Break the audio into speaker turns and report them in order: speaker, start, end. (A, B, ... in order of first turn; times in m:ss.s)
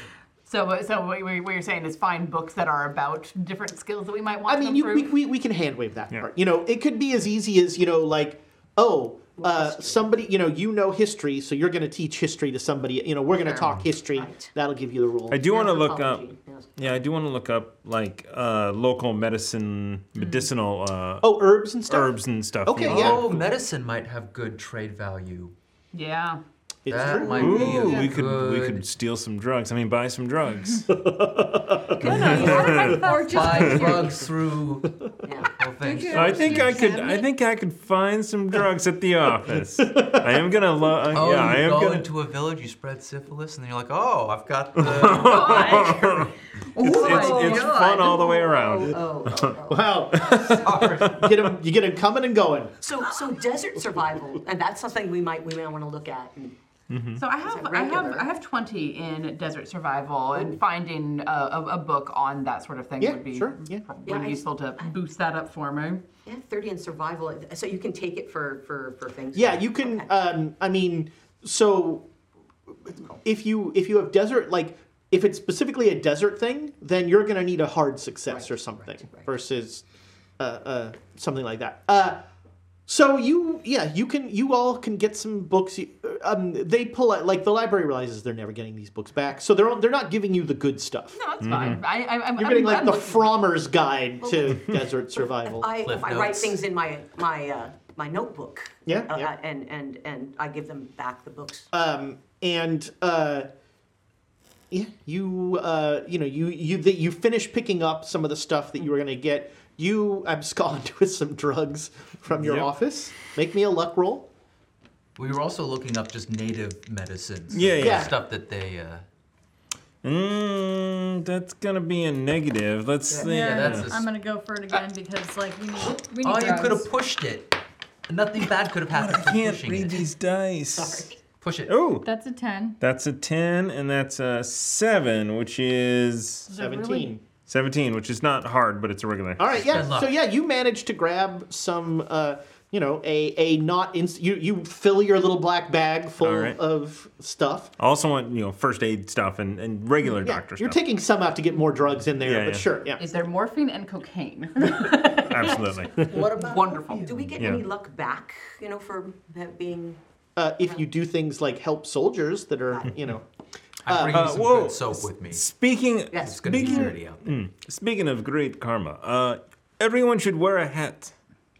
0:00.4-0:05.1 A
0:04.5-0:15.4 B
0:09.4-0:10.1 C
0:13.4-0:14.5 C
0:15.3-0:21.3 D
0:15.4-0:16.8 C
0:21.2-0:23.3 B
0:21.9-0:23.4 D
0:22.8-0:25.5 E
0:25.9-0:26.4 A
0:26.8-0:27.8 B
0:26.9-0:28.8 E
0:27.3-0:30.9 D
0:27.5-0:28.0 A
0:30.9-0:32.9 B
0:32.0-0:33.9 D
0:32.1-0:34.2 F
0:32.2-0:32.6 C
0:32.3-0:34.9 E
0:35.2-0:35.5 C
0:35.5-0:37.0 E
0:35.8-0:37.3 F
0:36.1-0:42.1 D
0:39.5-0:40.5 B
0:41.1-0:45.9 E
0:44.8-0:49.6 D
0:45.1-0:46.1 A
0:45.4-0:46.2 F
0:46.7-0:48.1 F
0:46.8-0:50.6 C
0:49.7-0:52.8 B
0:50.1-0:51.3 D
0:50.6-0:51.2 E
0:52.8-0:56.6 C
0:56.9-0:57.2 D
0:57.1-1:06.0 A
0:57.4-0:58.3 C
1:03.0-1:03.8 B
1:04.0-1:05.0 C
1:06.2-1:10.1 C
1:09.3-1:12.1 B
1:12.8-1:19.8 B
1:18.3-1:19.3 C
1:20.4-1:22.2 B
1:22.9-1:31.2 B
1:31.1-1:33.4 A
1:31.4-1:31.8 D
1:32.3-1:35.7 B
1:34.2-1:34.7 C
1:35.4-1:41.7 C
1:35.8-1:36.6 E
1:38.8-1:39.3 B
1:41.7-1:43.5 B
1:44.7-1:54.3 B
1:52.3-1:52.7 D
1:55.2-1:59.0 E
1:57.5-1:58.1 D
1:57.8-1:58.1 B
2:00.0-2:03.9 D
2:03.2-2:04.0 E
2:03.2-2:06.9 F
2:05.9-2:07.6 E
2:08.1-2:10.0 E
2:08.9-2:11.1 D
2:10.8-2:11.1 C
2:11.4-2:11.7 E
2:11.7-2:12.1 D
2:12.0-2:12.8 F
2:12.8-2:16.5 D
2:16.5-2:17.2 B
2:16.6-2:17.0 A
2:17.4-2:19.5 D
2:19.4-2:27.7 B
2:19.6-2:20.1 E
2:26.2-2:26.6 D
2:27.8-2:30.8 D
2:30.2-2:33.0 B
2:32.2-2:32.7 D
2:33.0-2:37.1 A
2:35.2-2:36.1 D
2:36.0-2:40.0 C
2:37.4-2:37.6 D
2:40.4-2:43.2 B
2:43.8-2:44.4 B
2:43.8-2:45.4 E
2:44.1-2:51.1 D
2:46.1-2:46.9 C
2:46.1-2:47.3 E